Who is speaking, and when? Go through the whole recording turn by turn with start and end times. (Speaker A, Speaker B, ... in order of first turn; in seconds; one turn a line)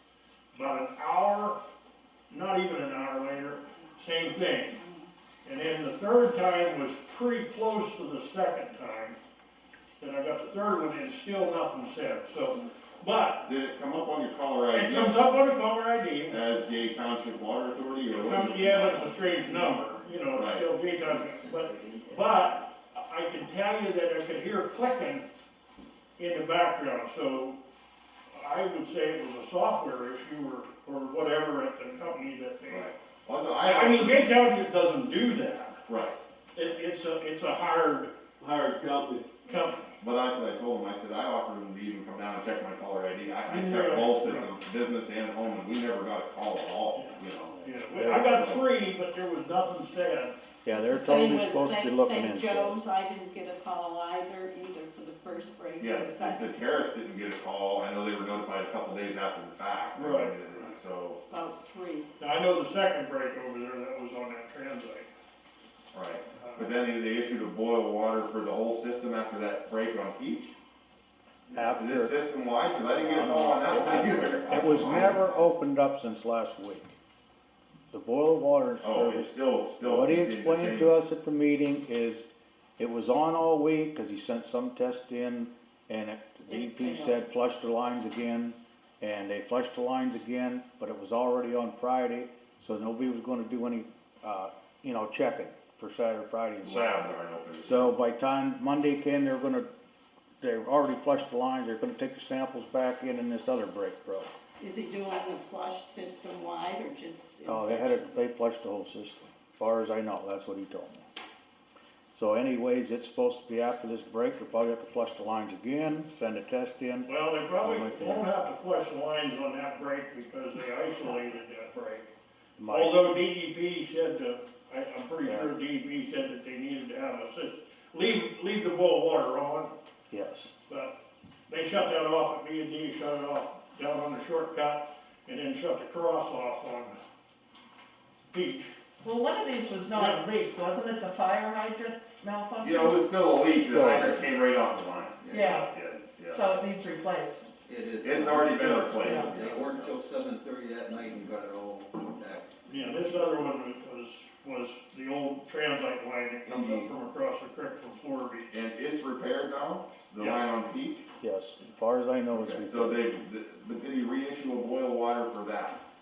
Speaker A: 0.5-1.6
Speaker A: 2.3-4.8
Speaker A: 5.4-9.2
Speaker A: 10.0-13.5
Speaker B: 13.4-15.3
Speaker A: 14.7-16.4
Speaker B: 16.3-19.0
Speaker A: 18.1-25.2
Speaker B: 20.3-20.7
Speaker C: 21.0-22.4
Speaker A: 26.2-27.6
Speaker A: 28.3-32.9
Speaker B: 32.7-34.3
Speaker A: 33.6-35.8
Speaker B: 35.9-36.2
Speaker A: 36.5-38.1
Speaker C: 38.4-39.3
Speaker A: 39.5-39.9
Speaker B: 40.0-47.6
Speaker A: 43.5-44.5
Speaker A: 46.9-50.4
Speaker D: 47.6-48.4
Speaker B: 48.2-48.6
Speaker D: 50.6-52.8
Speaker E: 50.7-56.5
Speaker B: 55.8-61.2
Speaker A: 59.9-60.7
Speaker E: 61.3-62.1
Speaker A: 62.2-65.1
Speaker B: 65.9-70.5
Speaker A: 66.4-66.7
Speaker D: 71.5-72.1
Speaker B: 71.6-75.3
Speaker D: 73.0-76.9
Speaker D: 77.9-82.2
Speaker B: 78.8-81.0
Speaker D: 82.8-97.1
Speaker E: 86.5-87.2
Speaker B: 96.6-98.0
Speaker D: 97.6-99.7
Speaker D: 100.4-104.3
Speaker E: 104.6-108.2
Speaker D: 107.4-111.1
Speaker D: 112.1-118.2
Speaker A: 117.0-122.0
Speaker D: 122.6-123.0
Speaker A: 122.7-129.7
Speaker D: 125.2-125.5
Speaker D: 130.1-130.5
Speaker A: 130.7-130.9
Speaker A: 131.5-136.9
Speaker A: 138.3-138.7
Speaker F: 139.0-143.1
Speaker A: 139.9-140.2
Speaker B: 142.6-146.6
Speaker D: 143.6-144.3
Speaker C: 145.2-145.5
Speaker F: 145.3-145.7
Speaker F: 146.3-147.5
Speaker C: 147.7-152.5
Speaker B: 148.0-150.0
Speaker A: 152.7-158.5
Speaker C: 156.5-156.8
Speaker B: 158.5-161.1
Speaker A: 160.2-160.5
Speaker D: 161.2-163.0
Speaker B: 162.3-165.8